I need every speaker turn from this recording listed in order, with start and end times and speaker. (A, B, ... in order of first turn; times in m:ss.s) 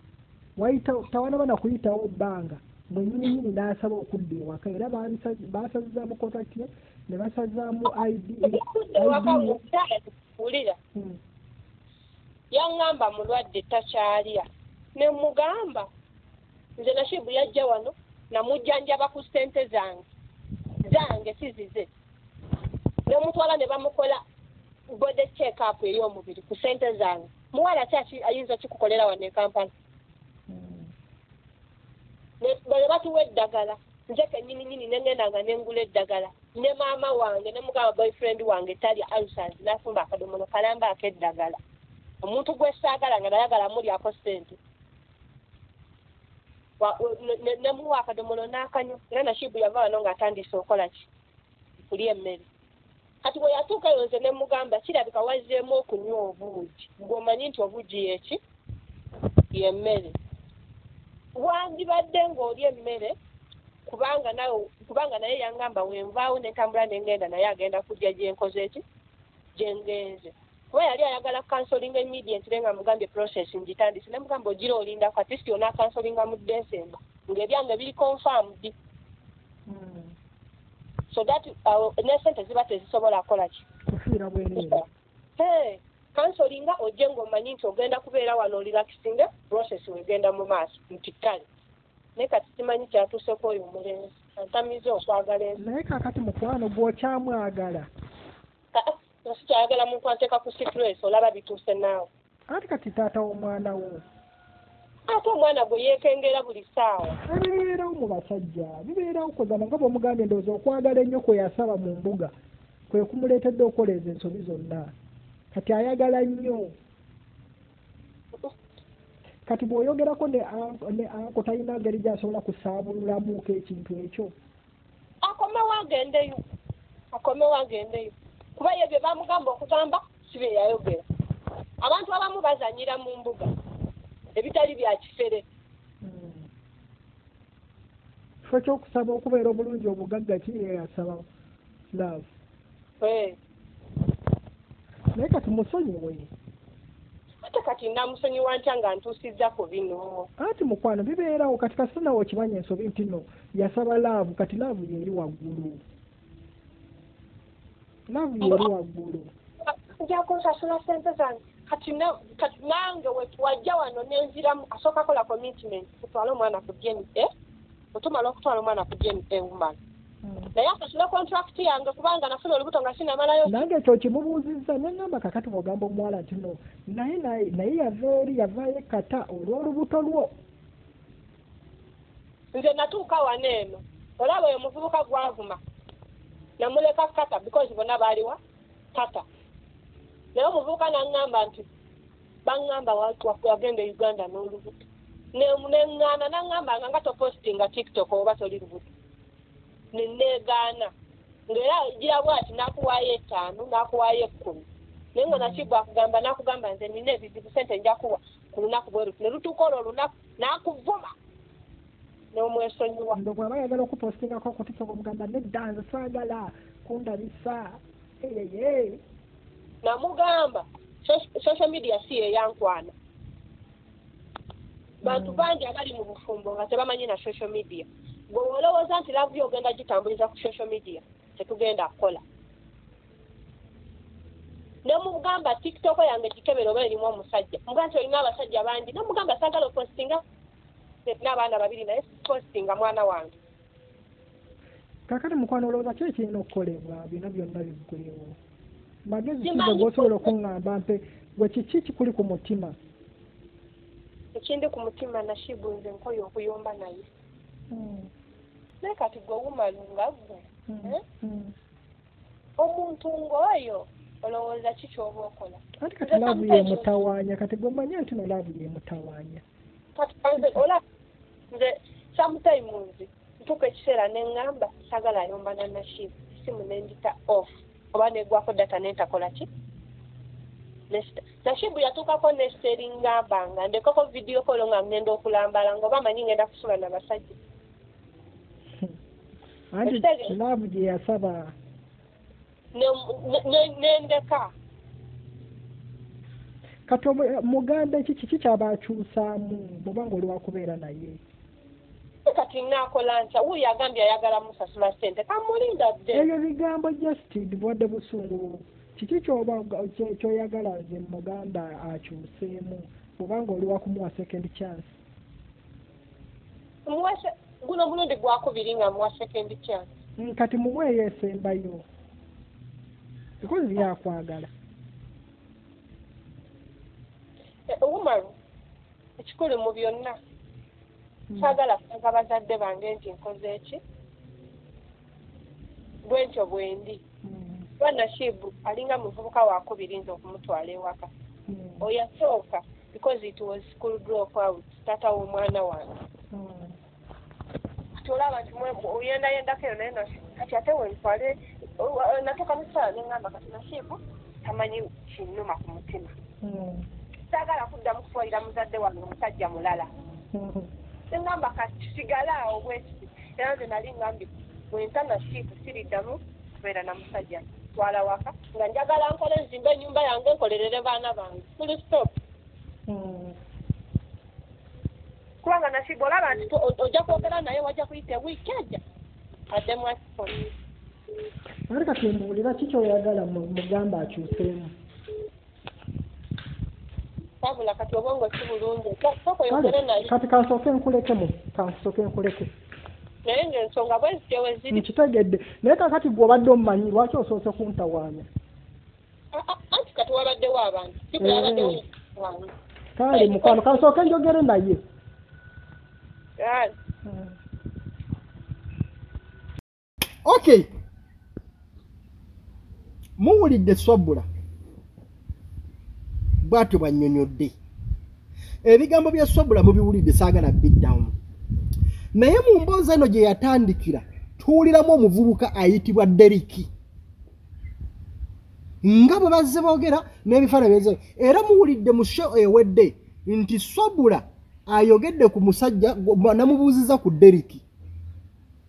0:00.6-0:09.6 A
0:08.4-0:10.8 B
0:11.0-0:11.2 A
0:12.5-0:15.9 B
0:16.8-0:20.1 B
0:20.8-0:21.9 B
0:23.1-0:24.2 B
0:24.9-0:29.7 B
0:30.5-0:30.9 A
0:32.4-0:41.6 B
0:42.2-0:44.6 B
0:46.8-0:51.1 B
0:51.9-0:52.5 B
0:53.2-0:58.4 B
0:59.5-1:00.2 B
1:01.4-1:03.2 B
1:03.9-1:08.8 B
1:09.6-1:18.7 B
1:19.7-1:20.2 A
1:21.1-1:23.7 B
1:23.9-1:24.8 A
1:25.4-1:31.4 B
1:32.2-1:35.6 B
1:35.6-1:37.9 A
1:38.7-1:42.1 B
1:42.5-1:44.0 A
1:45.1-1:47.2 B
1:47.3-1:52.3 A
1:52.9-1:54.9 A
1:55.5-1:56.7 A
1:59.5-2:04.3 A
2:05.2-2:06.4 B
2:07.1-2:11.0 B
2:11.8-2:13.5 B
2:14.4-2:15.4 B
2:16.0-2:16.5 A
2:18.4-2:21.3 A
2:21.9-2:22.3 A
2:23.0-2:23.4 B
2:25.2-2:26.3 A
2:27.4-2:30.3 B
2:30.4-2:35.8 A
2:38.1-2:39.3 A
2:39.6-2:47.3 B
2:47.9-2:49.8 B
2:50.2-2:50.5 A
2:50.6-2:53.6 B
2:53.5-3:00.3 A
3:02.5-3:05.6 B
3:06.6-3:08.4 B
3:08.9-3:09.2 B
3:10.3-3:11.7 B
3:12.4-3:14.8 B
3:15.3-3:18.9 B
3:19.9-3:20.9 B
3:21.5-3:31.1 B
3:25.3-3:25.7 A
3:32.3-3:33.2 B
3:33.2-3:39.0 A
3:39.8-3:42.9 B
3:45.0-3:52.2 B
3:45.0-3:45.5 A
3:54.8-4:00.2 B
4:01.1-4:03.3 B
4:05.1-4:08.4 A
4:09.1-4:12.8 A
4:09.4-4:10.3 B
4:14.4-4:17.1 B
4:17.7-4:18.1 A
4:18.8-4:21.0 B
4:20.7-4:21.5 A
4:22.6-4:26.9 B
4:25.8-4:29.4 A
4:30.0-4:30.8 B
4:31.5-4:39.5 B
4:40.9-4:47.4 B
4:49.7-4:51.6 A
4:49.8-4:50.4 B
4:52.7-4:54.5 B
4:56.9-5:01.2 A
5:02.3-5:06.3 B
5:06.1-5:15.0 A
5:16.9-5:19.9 B
5:20.2-5:21.9 A
5:23.4-5:24.5 A
5:27.7-5:28.4 B
5:29.2-5:30.2 B
5:31.3-5:31.6 A
5:31.4-5:33.8 B
5:36.0-5:37.0 B
5:37.2-5:37.7 A
5:37.8-5:41.1 B
5:41.5-5:41.9 A
5:41.8-5:45.9 B
5:46.3-5:46.8 A
5:48.0-5:56.1 B
5:56.4-5:56.9 A
5:57.3-5:59.9 B
6:00.3-6:00.7 A
6:01.1-6:12.1 B
6:12.9-6:13.4 A
6:15.4-6:18.8 B
6:19.5-6:20.4 B
6:21.7-6:24.7 A
6:27.4-6:30.1 B
6:29.5-6:32.5 A
6:33.2-6:34.9 B
6:34.7-6:38.3 A
6:39.3-6:42.5 B
6:41.2-6:41.8 A
6:43.0-6:44.8 A
6:43.1-6:43.8 B
6:46.4-6:46.7 B
6:47.0-6:47.4 A
6:50.2-6:50.7 C
6:53.2-6:54.3 C
6:56.4-6:57.6 C
6:58.6-7:01.2 C
7:02.2-7:06.7 C
7:08.8-7:17.6 C